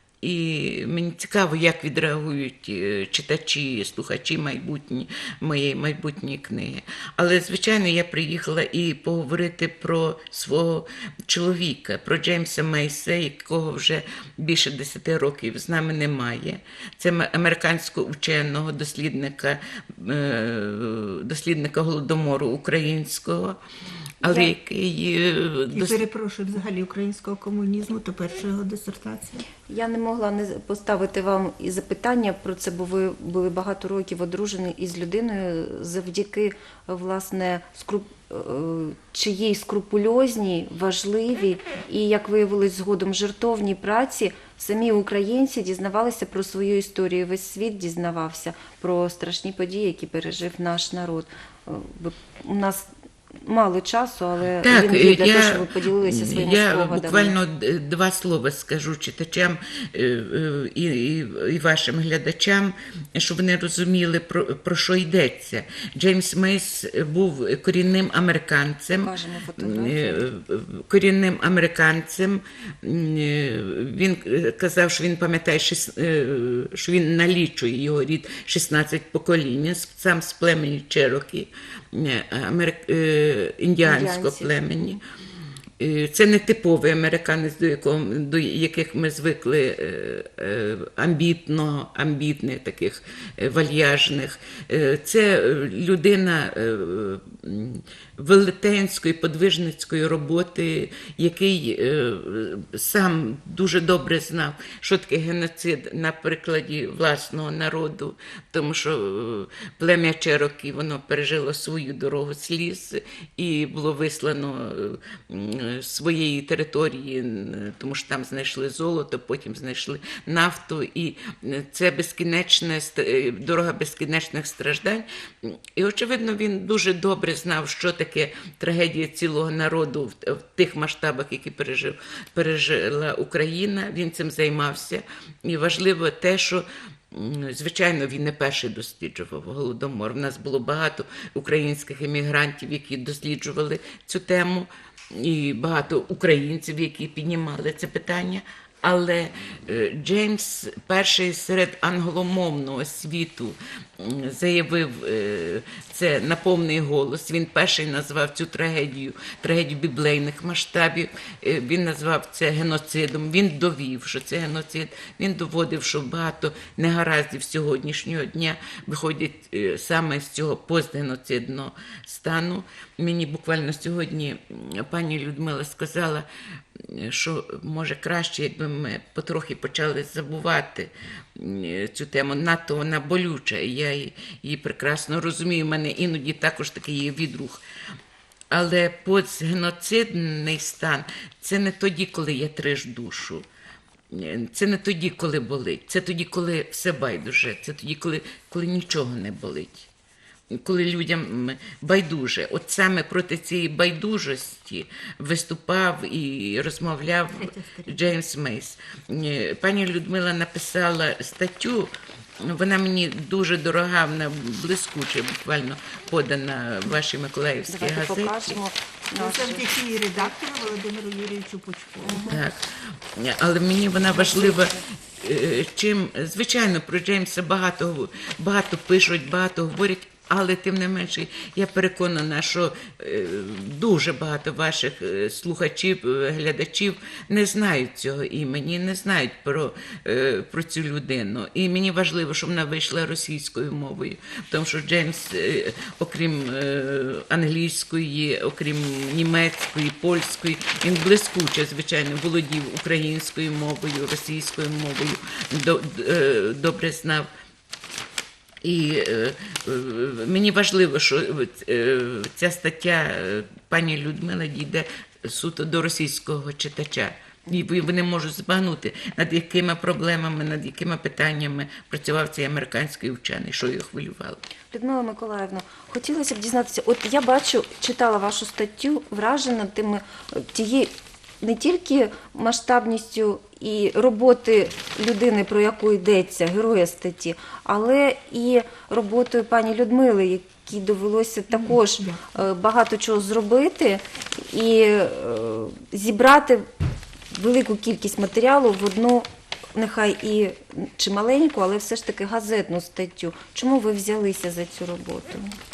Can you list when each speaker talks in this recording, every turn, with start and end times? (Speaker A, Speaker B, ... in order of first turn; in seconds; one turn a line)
Speaker A: 0.2-23.6
Speaker A: 24.2-26.0
Speaker B: 24.2-24.5
Speaker C: 25.7-29.4
Speaker B: 29.6-52.9
Speaker B: 53.4-57.4
Speaker A: 54.6-85.0
Speaker B: 69.0-70.3
Speaker B: 83.8-85.0
Speaker A: 85.8-176.2
Speaker A: 176.8-187.6
Speaker A: 188.5-193.4
Speaker A: 194.1-199.9
Speaker A: 200.6-218.6
Speaker C: 207.3-208.1
Speaker B: 217.7-219.6
Speaker C: 219.2-222.4
Speaker B: 222.1-222.3
Speaker A: 222.2-222.6
Speaker A: 223.2-257.3
Speaker B: 224.5-224.8
Speaker A: 258.6-274.4
Speaker B: 274.7-296.6
Speaker C: 291.5-292.4
Speaker B: 297.3-305.5